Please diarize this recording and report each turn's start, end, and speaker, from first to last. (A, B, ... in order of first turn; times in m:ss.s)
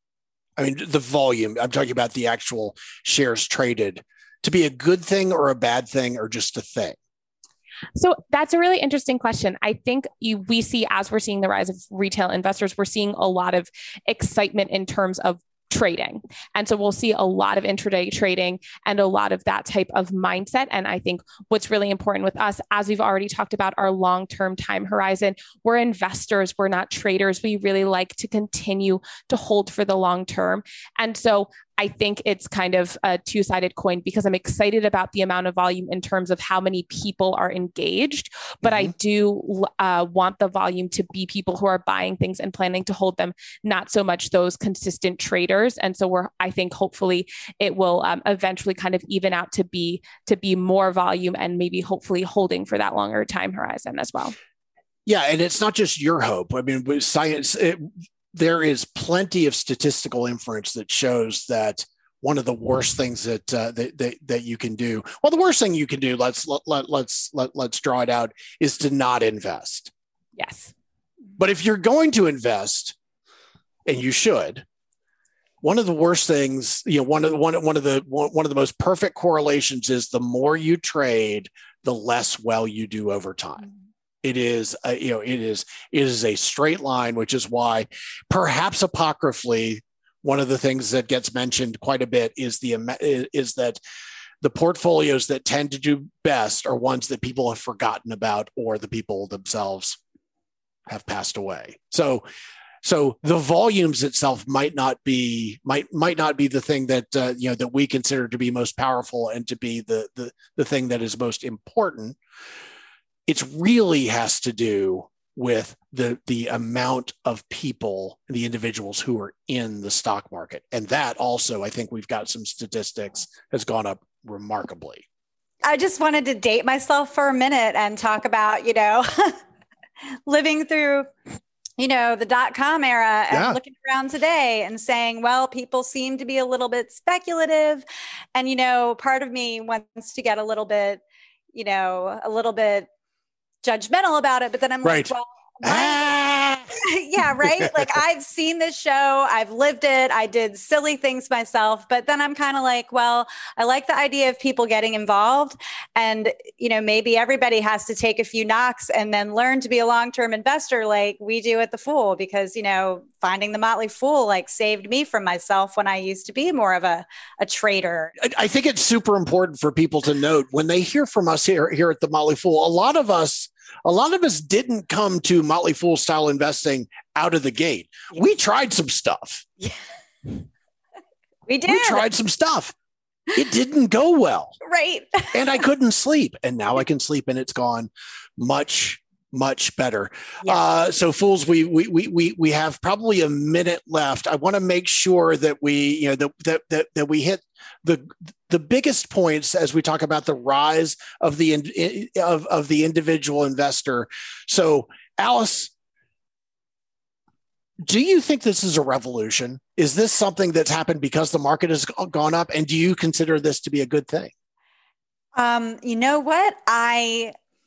0:00.6-0:07.0 A
0:08.0-0:54.3 B
0:38.6-0:38.9 A
0:55.0-1:09.9 A
1:10.4-1:10.7 B
1:11.4-1:12.9 A
1:13.8-1:14.6 A
1:15.6-1:23.7 A
1:24.2-1:33.8 A
1:34.4-1:40.0 A
1:40.9-1:42.2 A
1:42.8-1:52.2 A
1:53.3-2:05.0 A
2:05.6-2:09.4 C
2:10.2-2:11.1 C
2:11.8-2:21.0 C
2:13.3-2:13.6 A
2:21.5-2:22.9 C
2:23.6-2:26.1 C
2:24.8-2:27.9 A
2:26.8-2:48.1 C
2:48.2-2:59.4 A
2:59.6-3:00.3 C
3:01.5-3:02.0 C
3:01.7-3:02.7 A
3:03.3-3:04.6 A
3:04.6-3:05.3 C
3:05.3-3:25.7 A
3:27.8-3:34.3 A
3:35.3-3:37.3 C